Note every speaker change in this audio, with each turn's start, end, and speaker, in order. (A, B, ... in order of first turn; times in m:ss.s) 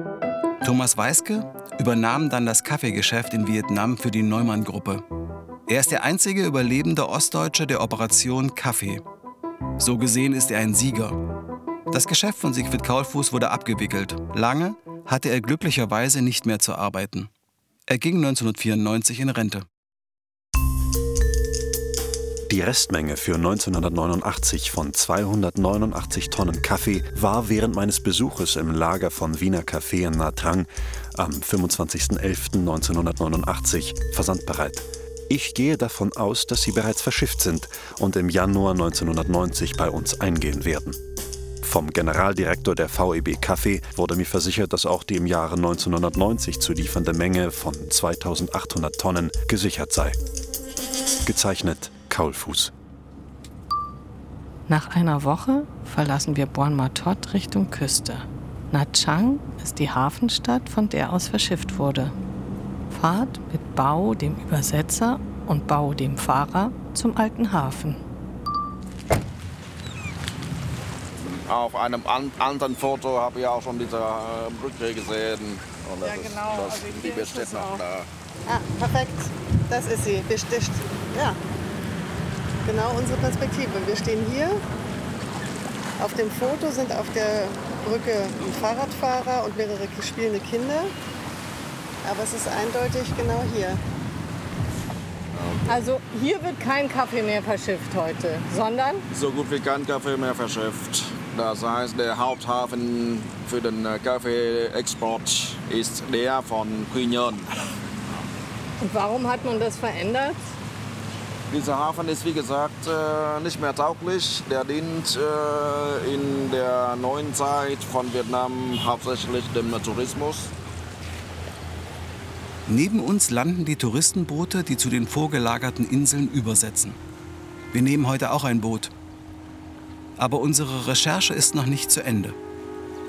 0:00.6-0:05.0 A
0:05.7-0:09.0 A
0:09.8-0:11.2 A
0:11.9-0:17.3 A
0:17.9-0:19.6 A
0:22.5-0:41.0 B
0:41.6-0:50.2 B
0:51.2-0:52.7 B
0:54.7-1:02.2 C
1:02.9-1:08.0 C
1:11.3-1:18.1 D
1:18.5-1:21.4 E
1:22.6-1:24.6 E
1:26.0-1:30.9 E
1:32.0-1:33.8 E
1:35.3-1:35.8 D
1:35.7-1:39.0 F
1:39.1-1:47.5 D
1:48.8-1:50.4 F
1:51.5-2:00.5 D
2:02.7-2:07.0 A
2:07.7-2:08.9 A
2:10.2-2:12.4 A